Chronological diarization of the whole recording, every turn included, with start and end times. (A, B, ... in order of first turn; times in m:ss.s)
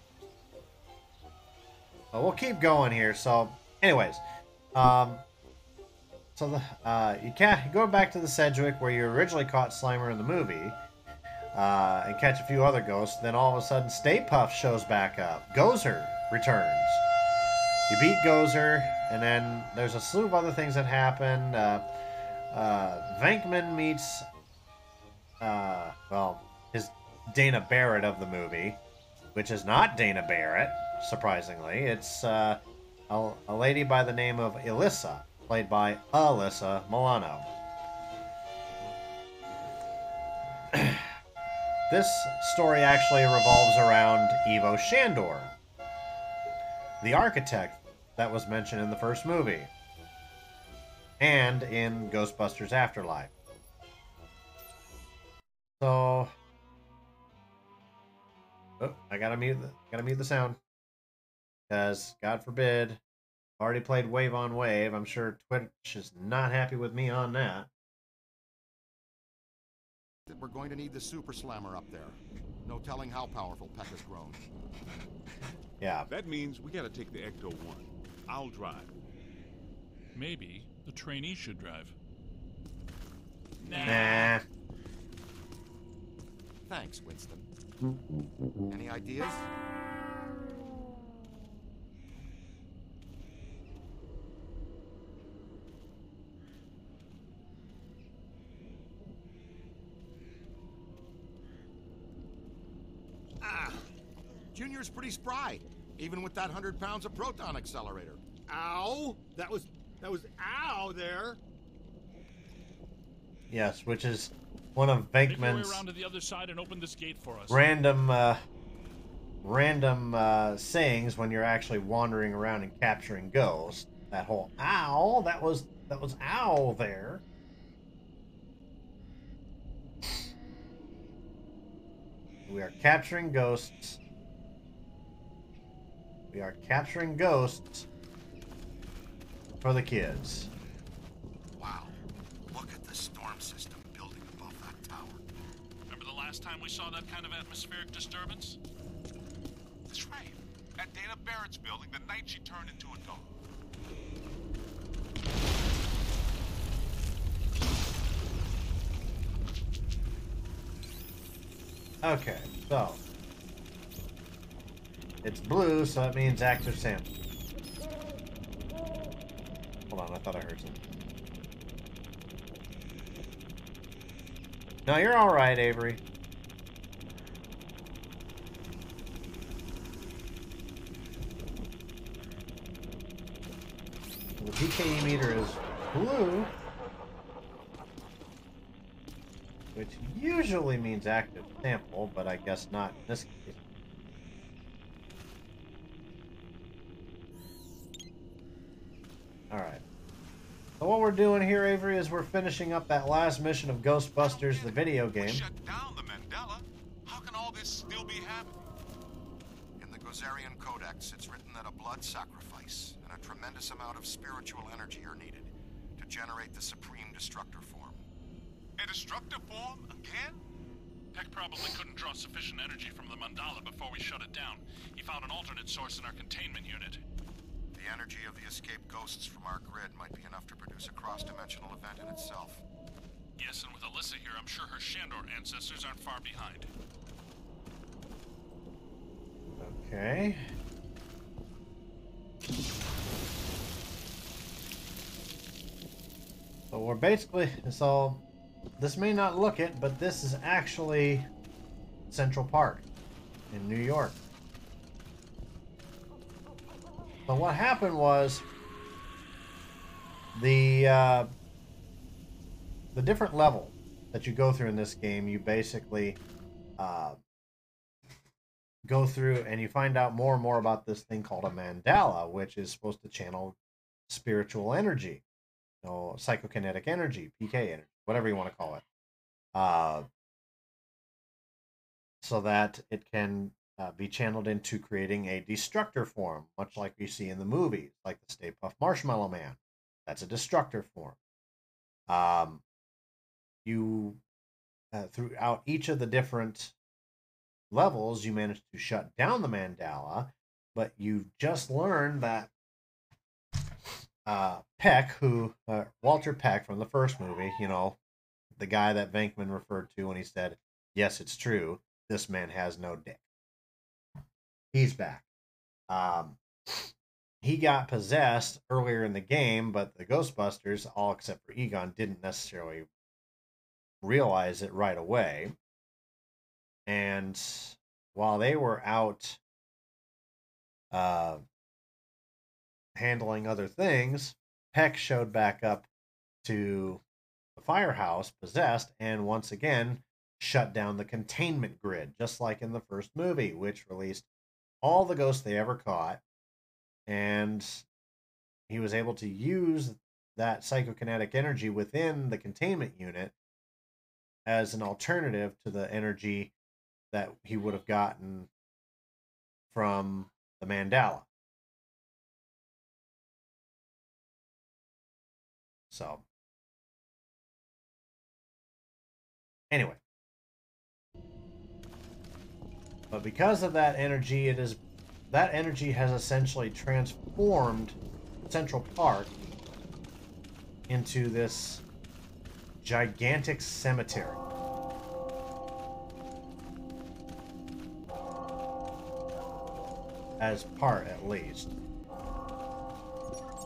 0:02.1-0:04.2 A
0:04.8-0:05.2 A
0:06.4-0:10.8 A
0:11.5-0:17.0 A
0:17.9-0:21.9 A
0:22.5-0:24.3 A
0:25.4-0:28.8 A
0:29.3-0:37.5 A
0:40.7-0:41.1 A
0:41.9-0:45.5 A
0:47.0-0:49.7 A
0:51.2-0:53.3 A
0:55.8-0:56.3 A
0:58.8-1:00.6 A
1:01.7-1:03.0 A
1:03.6-1:07.7 A
1:10.3-1:14.4 B
1:15.8-1:16.1 A
1:16.1-1:18.9 C
1:20.1-1:22.0 D
1:23.6-1:24.4 D
1:23.8-1:24.4 A
1:26.7-1:27.5 B
1:28.7-1:29.5 B
1:43.4-1:43.9 E
1:44.5-1:48.2 B
1:48.5-1:51.4 E
1:53.5-1:55.8 A
1:55.3-1:57.7 D
1:57.5-1:58.4 A
1:59.4-2:07.2 A
2:12.5-2:14.0 A
2:16.3-2:17.9 A
2:19.6-2:20.5 A
2:21.6-2:22.0 B
2:22.5-2:25.2 B
2:25.9-2:28.6 D
2:29.9-2:33.4 C
2:42.0-2:43.0 A
2:45.2-2:47.1 A
2:49.9-2:50.8 A
2:54.9-2:56.0 A
3:04.4-3:06.5 A
3:09.8-3:13.6 A
3:19.5-3:19.8 A
3:20.8-3:25.4 A
3:24.2-3:28.7 C
3:29.8-3:38.0 B
3:38.8-3:40.4 C
3:41.1-3:47.0 D
3:47.7-3:52.6 B
3:53.4-3:56.7 D
3:59.6-4:00.5 A
4:06.7-4:08.2 A
4:08.8-4:11.3 A
4:12.1-4:12.8 A
4:13.5-4:14.2 A
4:17.3-4:18.4 A
4:20.3-4:21.3 A
4:22.9-4:26.2 A
4:26.8-4:27.2 A
4:28.8-4:33.6 A
4:34.1-4:35.2 A
4:35.8-4:38.8 A
4:39.5-4:40.1 A
4:42.2-4:51.2 A
4:52.1-4:52.6 A
4:53.6-4:54.2 A
4:54.9-4:56.7 A
4:57.7-5:02.5 A
5:04.2-5:08.0 A
5:08.6-5:13.2 A
5:14.7-5:15.3 A
5:15.9-5:16.9 A
5:17.4-5:22.9 A
5:24.0-5:25.6 A
5:26.9-5:29.4 A
5:30.9-5:31.4 A
5:33.0-5:35.9 A
5:36.4-5:37.0 A
5:37.6-5:44.3 A
5:44.8-5:46.2 A
5:47.1-5:47.9 A
5:48.7-5:53.3 A
5:54.5-5:56.5 A
5:57.1-5:58.5 A
5:59.7-6:01.3 A
6:05.9-6:06.2 A
6:09.7-6:10.0 A
6:13.1-6:18.0 A
6:18.5-6:19.4 A
6:20.9-6:21.8 A
6:22.8-6:24.4 A
6:30.4-6:31.8 A